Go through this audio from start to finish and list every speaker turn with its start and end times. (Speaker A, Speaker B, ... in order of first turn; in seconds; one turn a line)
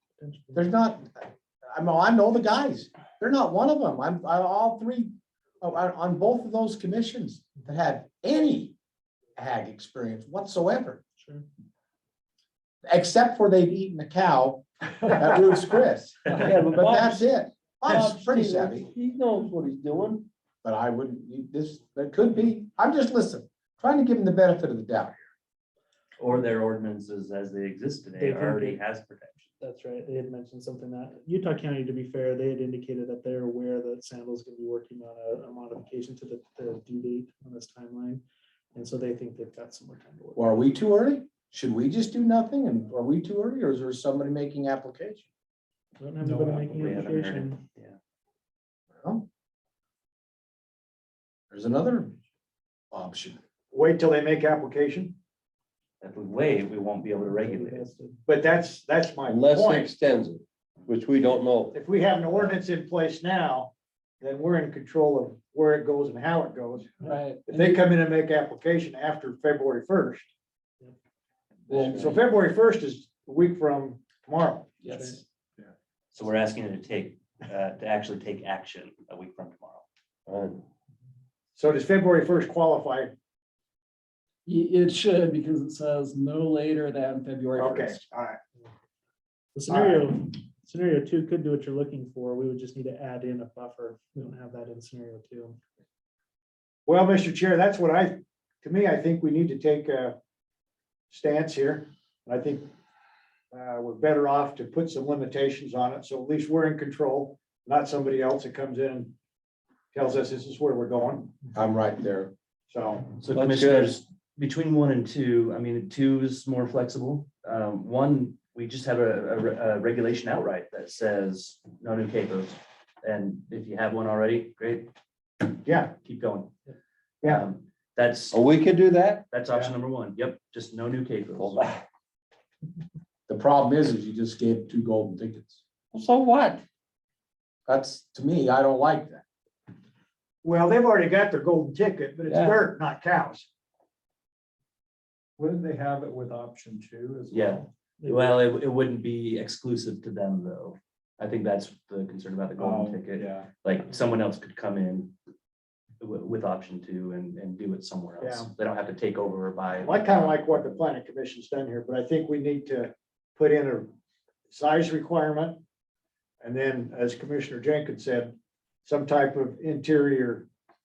Speaker A: 0.2-0.7
Speaker B: 0.5-8.8
Speaker B: 9.4-11.0
Speaker A: 11.2-11.4
Speaker B: 12.9-18.9
Speaker C: 16.4-17.3
Speaker C: 17.9-20.3
Speaker B: 20.6-25.3
Speaker D: 26.2-29.5
Speaker A: 28.2-28.8
Speaker A: 29.6-38.2
Speaker A: 38.7-40.5
Speaker B: 40.4-45.3
Speaker A: 46.0-47.6
Speaker D: 46.6-48.0
Speaker B: 49.0-49.2
Speaker B: 51.5-52.2
Speaker B: 52.9-53.4
Speaker E: 53.7-55.2
Speaker D: 56.0-57.9
Speaker A: 57.2-58.2
Speaker E: 58.3-59.9
Speaker C: 59.2-61.7
Speaker E: 61.7-67.0
Speaker F: 67.0-67.9
Speaker E: 67.5-70.3
Speaker F: 71.7-72.2
Speaker C: 71.7-72.0
Speaker E: 71.7-74.8
Speaker F: 74.8-75.2
Speaker A: 74.9-75.2
Speaker D: 76.1-79.8
Speaker C: 80.3-80.6
Speaker E: 81.6-83.1
Speaker F: 84.5-88.0
Speaker E: 87.6-88.4
Speaker A: 89.5-95.6
Speaker E: 89.7-90.0
Speaker E: 96.9-100.2
Speaker E: 101.1-102.7
Speaker E: 103.5-109.1
Speaker E: 109.9-111.4
Speaker B: 111.5-112.3
Speaker E: 112.7-113.1
Speaker D: 113.2-124.9
Speaker C: 113.3-114.0
Speaker E: 125.7-125.9
Speaker D: 126.0-126.5
Speaker D: 127.2-128.4
Speaker C: 128.3-129.2
Speaker D: 129.3-131.7
Speaker C: 131.4-131.8
Speaker B: 133.3-135.6
Speaker C: 135.9-136.6
Speaker B: 137.7-139.2
Speaker E: 140.4-143.5
Speaker C: 142.3-142.6
Speaker F: 145.4-147.6
Speaker D: 147.3-155.1
Speaker A: 148.0-148.4
Speaker D: 156.0-160.4
Speaker E: 158.2-158.5
Speaker E: 159.8-163.9
Speaker E: 164.5-165.6
Speaker E: 166.4-170.5